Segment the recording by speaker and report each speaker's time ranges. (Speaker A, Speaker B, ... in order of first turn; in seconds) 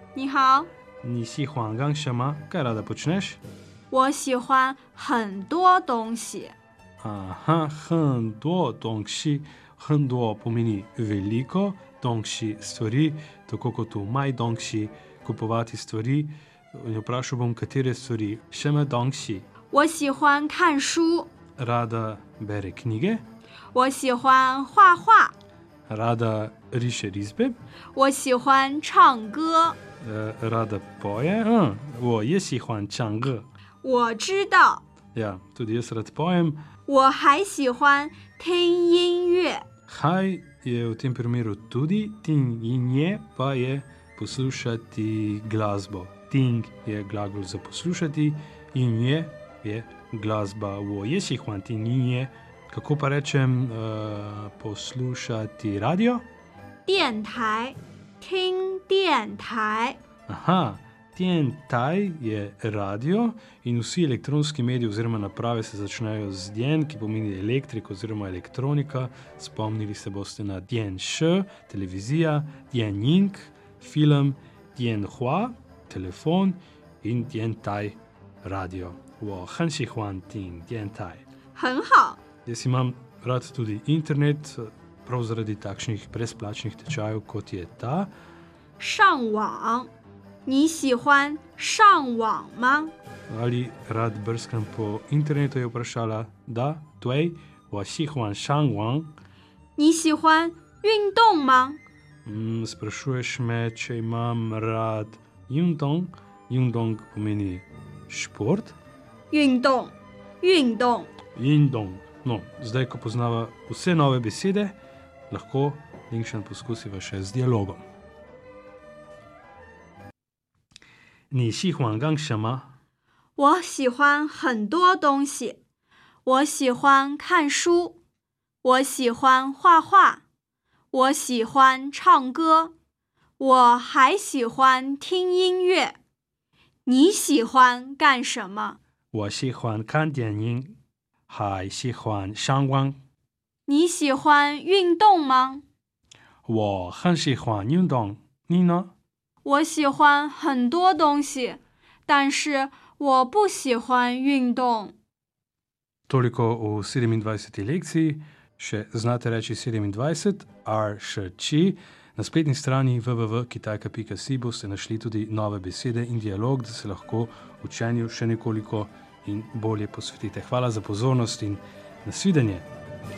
Speaker A: 0.1-0.7, 3.9-6.5, 19.7-21.3, 23.7-25.3, 27.9-29.8, 33.8-34.8, 36.9-39.6, 56.9-60.0, 81.5-82.2, 88.8-89.9, 90.5-92.9, 99.8-101.8, 109.3-111.1, 123.4-125.6, 126.2-128.0, 128.6-130.2, 130.9-132.7, 133.4-136.0, 136.8-138.8, 143.7-145.6, 149.4-154.9
Speaker B: 1.0-3.4, 7.0-19.5, 21.6-23.2, 25.9-27.6, 30.0-33.5, 35.1-36.6, 39.9-56.3, 60.3-81.2, 82.5-88.1, 93.3-99.1, 102.2-108.8, 111.3-114.8, 115.3-117.8, 121.3-122.8, 139.1-140.8, 141.3-143.0, 146.4-148.9, 156.1-172.7